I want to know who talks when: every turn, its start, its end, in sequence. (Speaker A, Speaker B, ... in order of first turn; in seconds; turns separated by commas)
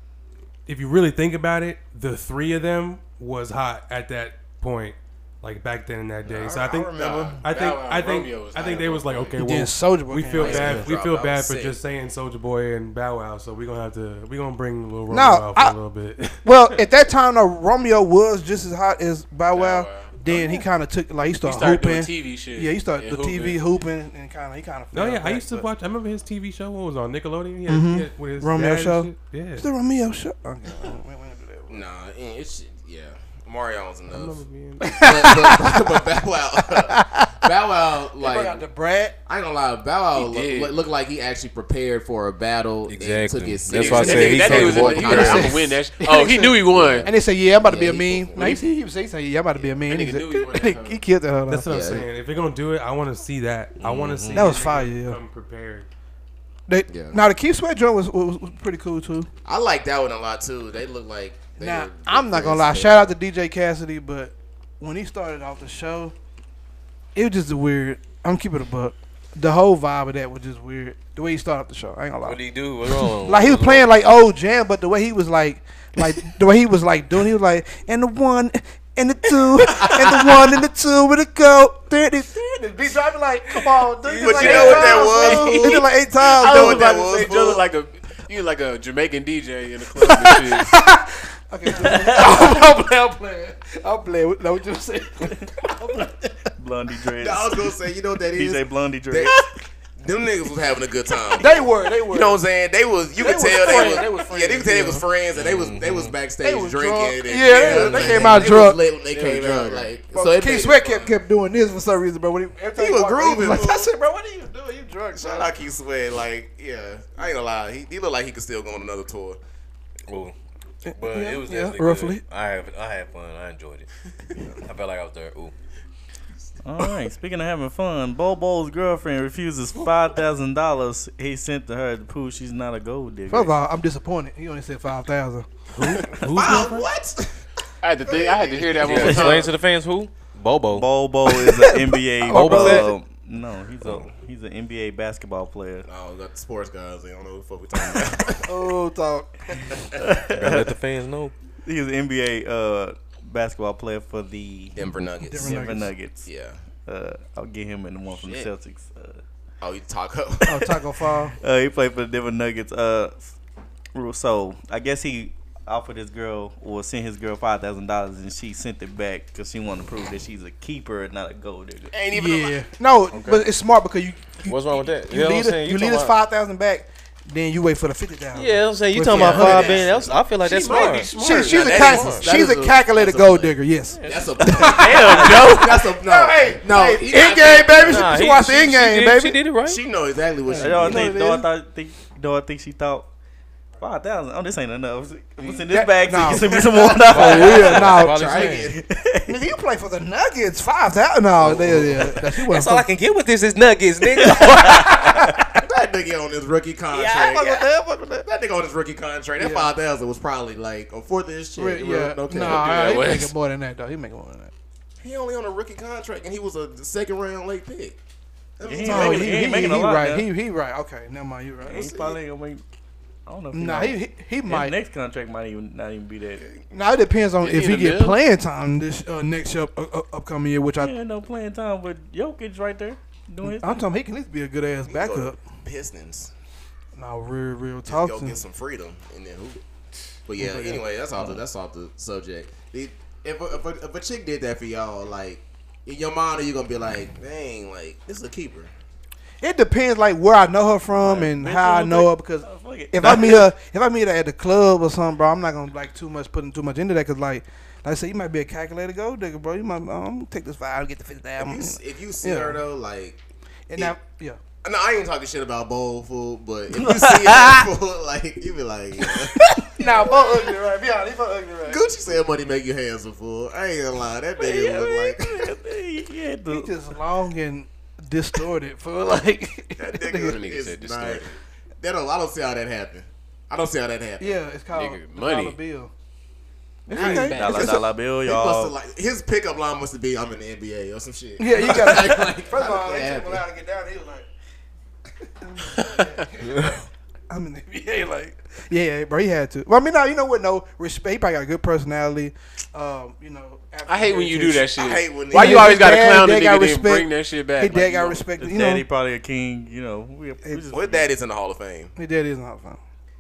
Speaker A: 0.7-16.4, Speaker B: 6.2-7.4, Speaker C: 6.9-9.4, Speaker D: 9.4-10.9, Speaker B: 10.3-11.8, Speaker D: 15.1-15.8, Speaker D: 16.4-25.7, Speaker C: 19.5-20.6, Speaker C: 21.4-23.6, Speaker A: 24.9-29.7, Speaker D: 27.7-31.8, Speaker B: 31.7-38.6, Speaker A: 34.1-35.0, Speaker D: 34.8-36.0, Speaker D: 36.7-37.5, Speaker D: 38.2-39.2, Speaker B: 39.2-45.6, Speaker C: 40.1-40.8, Speaker E: 42.9-45.5, Speaker C: 43.7-47.1, Speaker D: 44.1-52.0, Speaker B: 46.7-48.6, Speaker C: 49.8-51.0, Speaker A: 51.5-55.9, Speaker B: 51.7-52.1, Speaker E: 53.8-54.5, Speaker D: 54.3-55.2, Speaker D: 56.7-59.3, Speaker B: 56.9-57.2, Speaker B: 59.4-63.1, Speaker D: 61.6-66.1, Speaker D: 67.1-72.4, Speaker E: 72.2-73.9, Speaker D: 73.2-86.9, Speaker E: 84.1-85.0, Speaker B: 84.2-87.6, Speaker C: 84.2-90.7, Speaker D: 90.0-96.5, Speaker F: 91.8-92.4, Speaker F: 96.6-97.7, Speaker B: 97.2-99.5, Speaker F: 98.3-99.3, Speaker B: 100.0-111.2, Speaker D: 101.3-102.4, Speaker D: 103.2-105.0, Speaker C: 103.6-104.0, Speaker E: 105.3-106.1, Speaker D: 106.4-108.8, Speaker C: 107.7-109.9, Speaker E: 107.7-108.1, Speaker D: 110.1-115.5, Speaker B: 112.8-113.9, Speaker B: 115.1-119.4, Speaker E: 120.1-120.3, Speaker D: 120.8-122.2, Speaker E: 120.9-123.9, Speaker E: 124.6-125.5, Speaker F: 126.6-133.5, Speaker D: 133.3-136.0, Speaker A: 135.8-136.8, Speaker F: 135.8-136.8, Speaker B: 136.2-137.4, Speaker C: 137.8-139.5, Speaker B: 138.0-139.3, Speaker E: 138.8-140.8, Speaker F: 138.9-139.4, Speaker F: 140.7-145.8, Speaker D: 141.3-142.9, Speaker E: 142.2-142.9, Speaker E: 143.8-144.1, Speaker B: 145.8-148.5, Speaker D: 148.4-149.9, Speaker F: 150.0-150.8, Speaker E: 150.3-151.3, Speaker F: 151.6-156.3, Speaker B: 154.8-155.7, Speaker D: 155.2-155.9, Speaker B: 156.2-156.6, Speaker F: 156.8-159.2, Speaker B: 159.6-160.6, Speaker D: 160.4-161.3, Speaker F: 161.4-163.3, Speaker F: 163.9-171.9, Speaker B: 171.9-172.5, Speaker D: 172.1-179.9, Speaker E: 173.1-173.4, Speaker E: 174.4-176.1, Speaker E: 178.3-181.1, Speaker B: 179.1-180.2, Speaker C: 180.4-181.9, Speaker D: 181.2-189.4, Speaker B: 181.4-188.1, Speaker E: 181.7-182.3, Speaker E: 184.0-184.3, Speaker F: 184.4-185.6, Speaker C: 184.6-185.8, Speaker E: 187.8-189.8, Speaker B: 189.6-191.1, Speaker F: 190.5-193.1, Speaker D: 190.5-191.5, Speaker F: 193.8-198.0, Speaker D: 195.7-198.5, Speaker E: 197.0-198.7, Speaker B: 197.2-198.8, Speaker F: 198.7-199.4, Speaker D: 199.2-202.8, Speaker E: 201.4-205.1, Speaker F: 204.2-205.4, Speaker D: 204.4-205.5, Speaker B: 205.6-207.7, Speaker F: 206.9-207.9, Speaker B: 208.2-213.0, Speaker D: 209.4-209.7, Speaker D: 211.6-214.5, Speaker C: 212.4-213.3, Speaker B: 215.0-217.9, Speaker B: 218.6-219.5, Speaker F: 218.6-220.3, Speaker D: 218.8-221.9, Speaker F: 221.6-222.6, Speaker B: 221.7-222.2, Speaker F: 223.2-226.4, Speaker D: 223.5-224.8, Speaker D: 226.7-230.9, Speaker C: 227.4-228.2, Speaker F: 230.8-233.8, Speaker D: 233.4-235.4, Speaker B: 234.9-236.3, Speaker D: 236.9-238.4, Speaker B: 237.8-239.6, Speaker B: 240.2-248.7, Speaker F: 240.4-241.4, Speaker D: 249.4-262.6, Speaker F: 251.0-253.5, Speaker B: 261.4-263.2, Speaker D: 263.7-264.4, Speaker B: 264.6-269.4, Speaker F: 266.7-267.7, Speaker F: 269.0-269.6, Speaker D: 269.8-271.8, Speaker B: 271.6-275.5, Speaker F: 274.4-276.7, Speaker D: 276.5-280.4, Speaker B: 279.8-284.3, Speaker C: 280.2-281.3, Speaker D: 284.2-285.9, Speaker C: 284.7-285.6, Speaker D: 286.9-287.7, Speaker F: 286.9-288.7, Speaker C: 286.9-287.8, Speaker B: 287.5-293.4, Speaker D: 291.4-294.3, Speaker D: 295.4-296.7, Speaker D: 297.3-304.7, Speaker C: 303.9-308.2, Speaker B: 304.8-305.8, Speaker D: 305.3-308.9, Speaker F: 308.4-311.1, Speaker B: 310.7-311.9, Speaker D: 311.9-312.8